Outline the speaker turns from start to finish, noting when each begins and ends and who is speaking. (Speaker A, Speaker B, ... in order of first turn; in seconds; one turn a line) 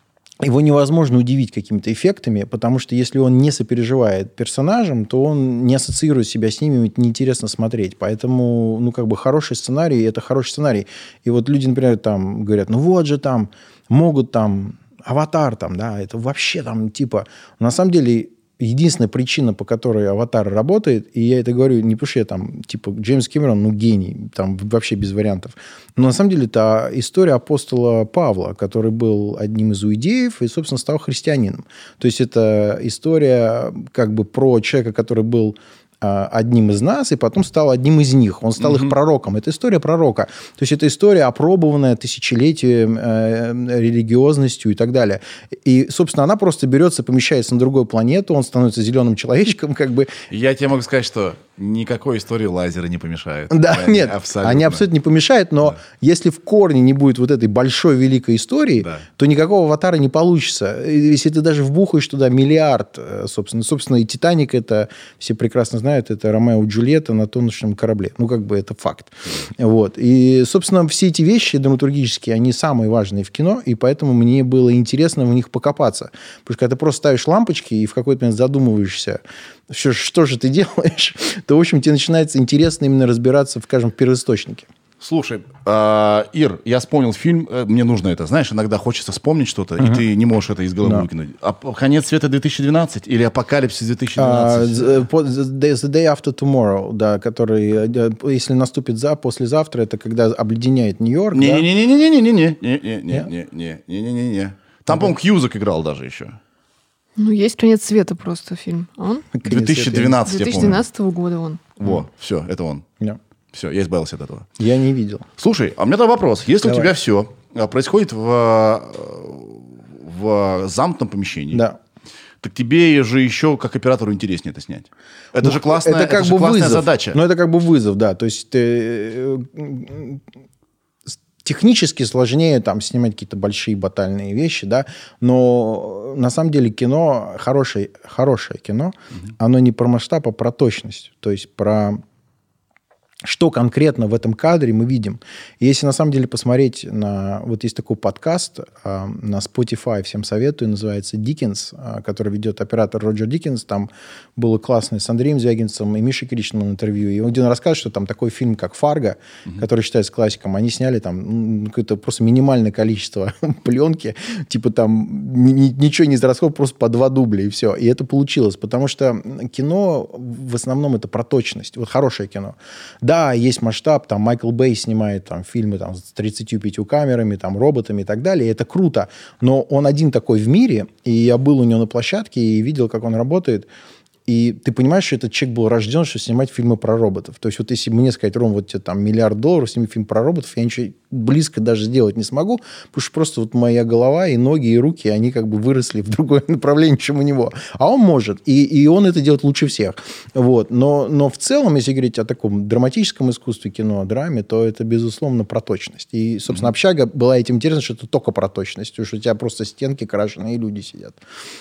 Speaker A: 0.4-50.1
Speaker B: 38.6-38.9
Speaker B: 50.3-54.9
Speaker A: 53.5-84.7
Speaker B: 58.8-59.1
Speaker B: 85.0-95.0
Speaker A: 89.8-90.0
Speaker A: 94.2-101.7
Speaker B: 101.3-106.4
Speaker C: 107.2-109.3
Speaker A: 109.3-110.7
Speaker B: 109.5-110.8
Speaker C: 110.2-111.6
Speaker B: 111.8-112.8
Speaker B: 113.5-114.5
Speaker A: 114.6-115.3
Speaker B: 115.4-121.7
Speaker A: 116.6-116.9
Speaker A: 121.5-121.8
Speaker B: 122.4-127.2
Speaker A: 125.4-130.2
Speaker A: 131.4-142.0
Speaker A: 143.2-183.7
Speaker A: 184.3-211.2